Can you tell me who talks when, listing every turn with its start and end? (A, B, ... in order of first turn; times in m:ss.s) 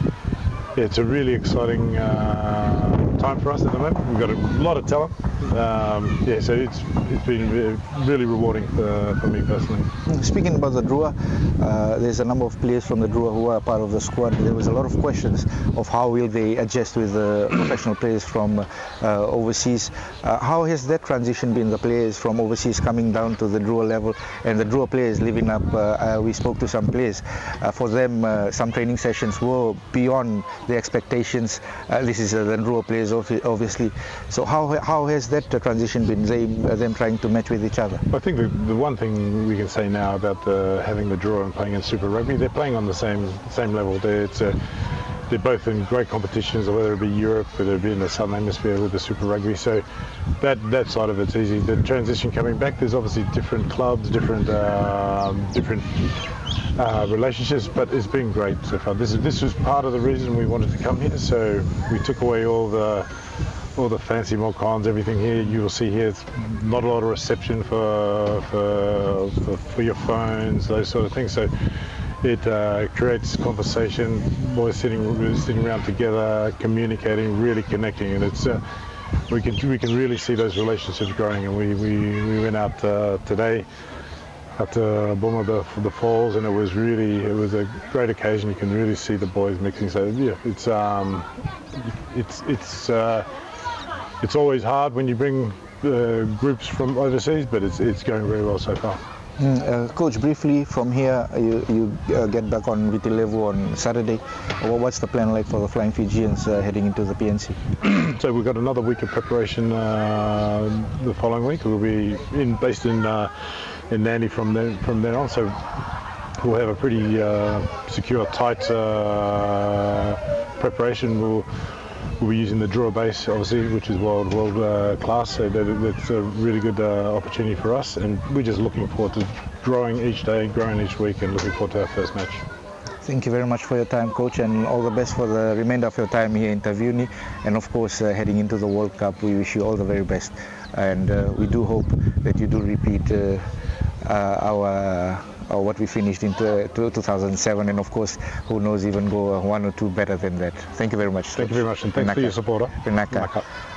0:00.7-0:09.9 A
0:10.1-0:38.0 B
0:38.1-0:44.6 A
0:45.3-0:49.8 A
0:50.4-0:56.0 A
0:56.8-1:03.1 A
1:03.7-1:11.5 A
1:12.2-1:18.6 A
1:19.3-1:23.6 A
1:24.6-1:33.3 A
1:34.2-1:39.0 A
1:39.4-1:47.6 B
1:47.8-1:53.3 A
1:53.9-1:55.6 A
1:56.4-2:01.5 A
2:02.2-2:12.4 A
2:13.0-2:23.5 B
2:24.0-2:33.4 B
2:31.4-2:33.4 A